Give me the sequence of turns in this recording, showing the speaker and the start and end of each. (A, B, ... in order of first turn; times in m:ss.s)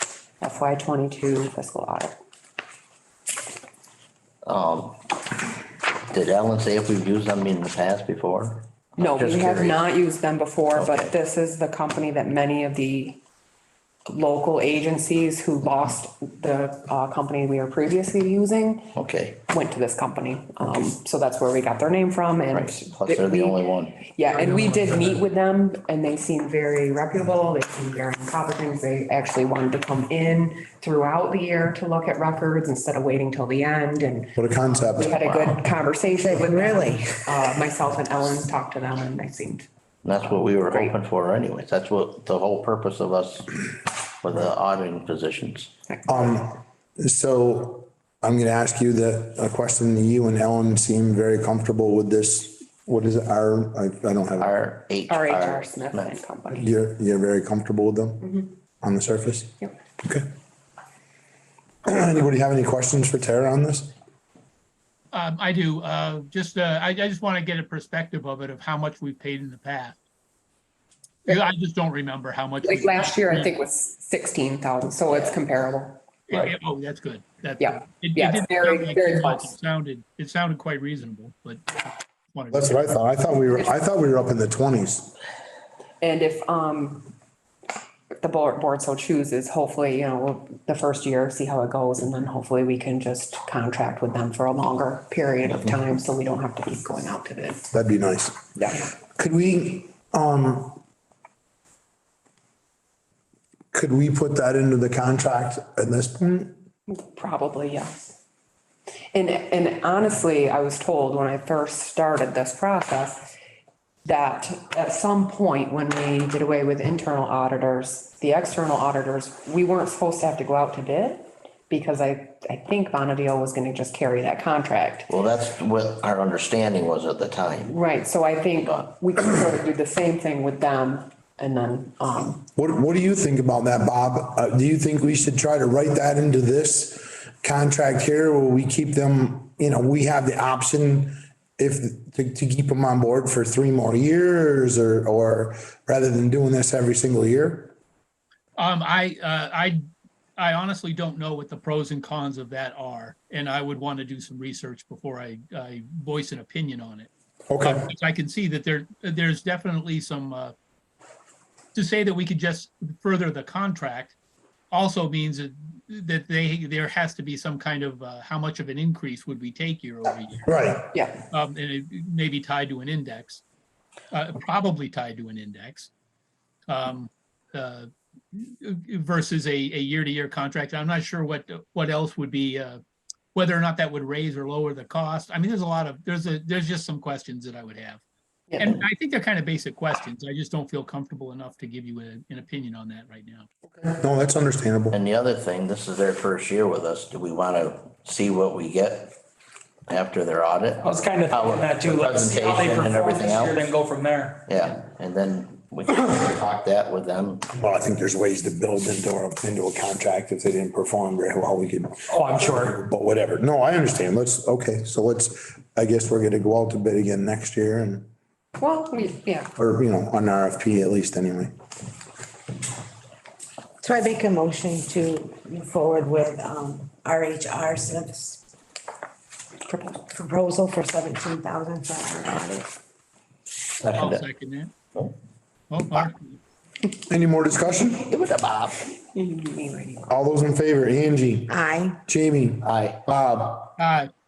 0:00.4-0:02.2 A
0:04.4-0:05.1 B
0:06.1-0:09.8 B
0:09.0-0:13.2 A
0:10.8-0:11.1 B
0:14.1-0:18.9 A
0:19.0-0:19.4 B
0:19.5-0:39.7 A
0:22.5-0:24.0 B
0:34.4-0:35.3 C
0:36.5-0:37.0 D
0:40.0-0:45.7 B
0:40.6-0:40.9 A
0:45.9-0:46.3 A
0:46.1-0:54.5 C
0:54.4-0:56.1 B
0:55.1-0:56.7 A
0:56.5-1:00.3 C
1:01.8-1:03.9 C
1:05.1-1:10.0 E
1:11.3-1:13.6 E
1:12.6-1:16.0 A
1:16.3-1:21.8 E
1:17.6-1:19.5 A
1:22.3-1:22.8 E
1:22.5-1:25.1 C
1:26.0-1:27.1 A
1:28.2-1:37.7 A
1:37.7-1:40.8 C
1:38.6-1:38.8 A
1:43.7-1:46.6 C
1:46.9-1:47.9 A
1:49.1-1:53.3 A
1:54.0-2:05.1 A
2:05.1-2:07.7 B
2:07.7-2:12.4 A
2:12.6-2:27.8 C
2:28.6-2:29.8 E
2:30.4-2:37.1 E
2:37.5-2:37.9 C
2:37.6-2:40.6 E
2:41.8-2:44.2 E
2:44.7-2:50.5 E
2:50.5-2:50.9 C
2:50.9-2:51.2 A
2:51.3-2:53.4 E
2:54.1-2:55.9 E
2:56.7-3:02.8 E
3:03.3-3:08.0 E
3:08.6-3:13.5 E
3:13.7-3:15.0 C
3:14.9-3:19.2 B
3:19.9-3:23.8 B
3:20.8-3:24.4 F
3:24.5-3:27.4 B
3:27.5-3:38.1 C
3:32.1-3:32.7 F
3:38.6-3:39.5 A
3:39.6-3:41.5 C
3:43.8-3:48.4 D
3:49.7-3:50.0 A
3:50.1-3:52.7 D
3:53.8-3:54.2 B
3:54.0-3:54.7 E
3:55.7-3:56.4 E
3:57.1-3:58.1 C
3:58.1-3:58.8 B
3:59.1-4:00.1 A
4:00.1-4:03.7 C
4:01.5-4:02.0 D
4:02.6-4:03.0 B
4:03.8-4:04.1 E